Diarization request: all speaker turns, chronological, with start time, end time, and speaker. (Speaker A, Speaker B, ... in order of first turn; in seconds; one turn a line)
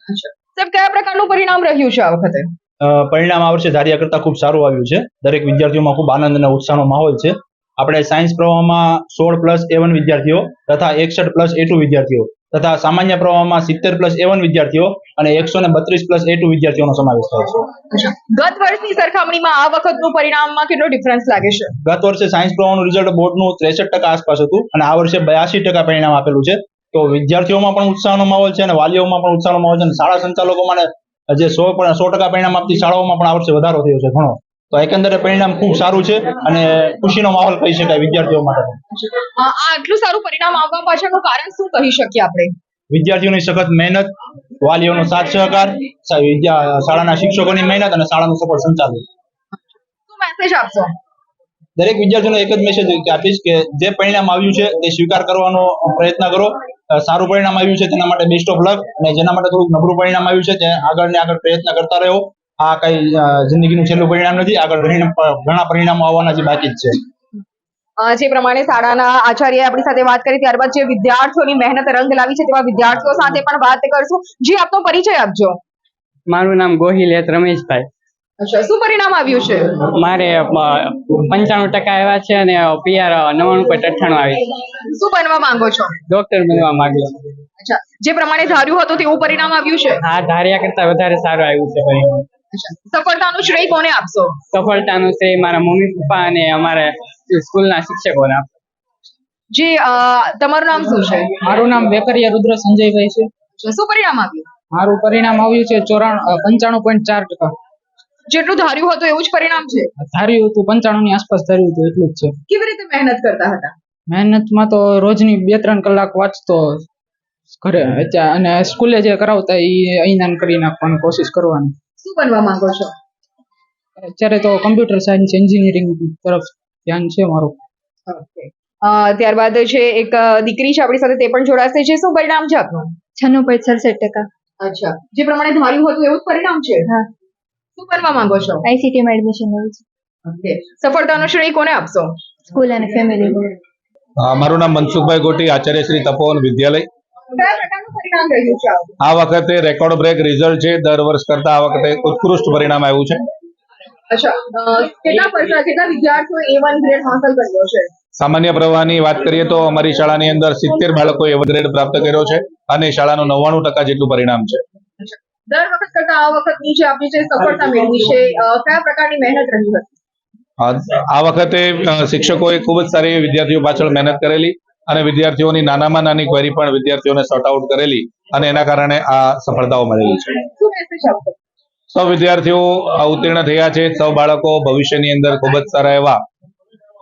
Speaker A: 0.1-2.5
Speaker B: 2.8-17.7
Speaker A: 17.9-21.7
Speaker B: 21.8-38.8
Speaker A: 39.0-42.5
Speaker B: 42.9-49.0
Speaker A: 50.1-50.9
Speaker B: 51.8-67.0
Speaker A: 68.0-75.6
Speaker C: 76.3-77.9
Speaker A: 78.4-79.7
Speaker C: 79.9-84.5
Speaker A: 84.8-86.0
Speaker C: 86.1-87.2
Speaker A: 87.6-90.0
Speaker C: 90.0-92.2
Speaker A: 92.5-94.4
Speaker C: 94.5-98.5
Speaker A: 99.5-101.3
Speaker D: 101.4-103.3
Speaker A: 103.6-104.5
Speaker D: 104.7-107.5
Speaker A: 108.3-109.9
Speaker D: 110.0-112.4
Speaker A: 112.5-113.7
Speaker D: 114.1-116.9
Speaker D: 117.6-121.8
Speaker A: 122.0-122.9
Speaker D: 124.0-127.6
Speaker A: 128.1-132.9
Speaker E: 133.2-134.3
Speaker A: 134.6-136.9
Speaker A: 137.8-138.7
Speaker E: 138.6-139.8
Speaker A: 140.3-142.1
Speaker E: 142.5-143.5
Speaker F: 144.2-146.9
Speaker A: 147.3-148.9
Speaker F: 149.0-153.2
Speaker A: 154.1-157.9
Speaker F: 158.2-164.6
Speaker A: 165.0-169.9
Speaker F: 170.6-180.4
Speaker A: 180.5-181.4
Speaker F: 181.9-186.2